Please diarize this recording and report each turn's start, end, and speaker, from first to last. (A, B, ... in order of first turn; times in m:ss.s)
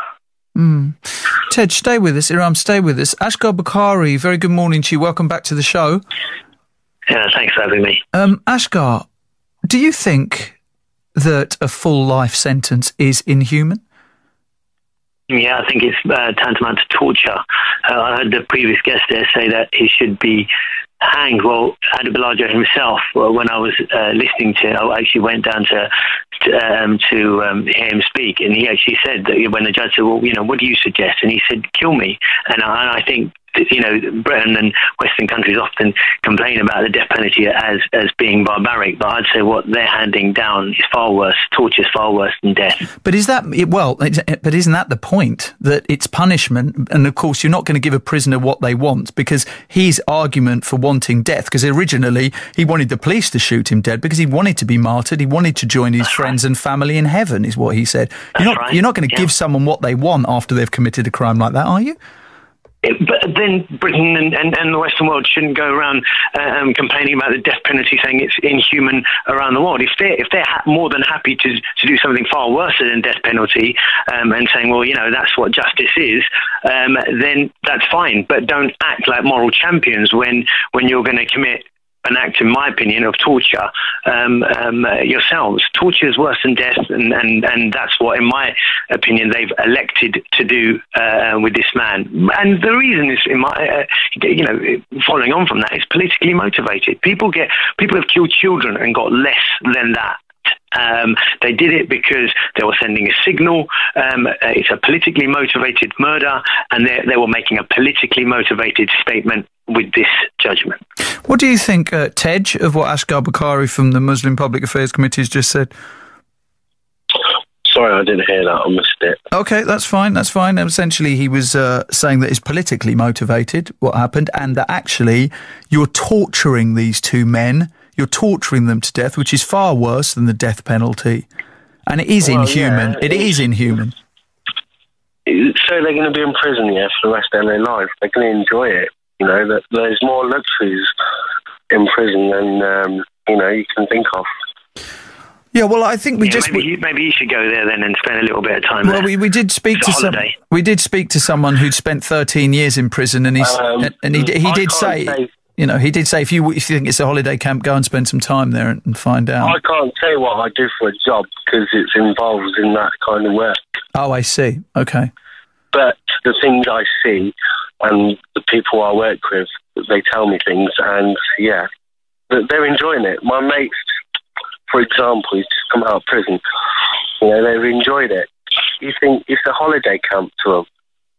0:00.6-0:06.0 A
0:07.1-0:08.0 B
0:08.1-0:09.1 A
0:09.7-0:10.6 A
0:11.2-0:13.8 A
0:15.3-0:20.5 B
0:21.0-0:42.9 B
0:43.0-1:02.0 A
0:58.4-0:59.3 B
1:02.8-1:50.8 B
1:51.3-1:55.7 A
1:57.6-1:59.2 C
1:59.3-2:11.3 A
2:11.9-2:14.0 A
2:12.2-2:13.3 C
2:15.3-2:20.9 C
2:21.7-2:24.3 C
2:25.5-2:26.7 A
2:26.2-2:29.1 B
2:28.8-2:39.6 A
2:29.8-2:30.4 B
2:33.4-2:35.3 C
2:39.4-2:43.6 C
2:44.0-2:45.1 A
2:45.7-2:51.7 C
2:52.3-2:53.8 C
2:54.7-2:56.4 C
2:57.2-3:00.7 C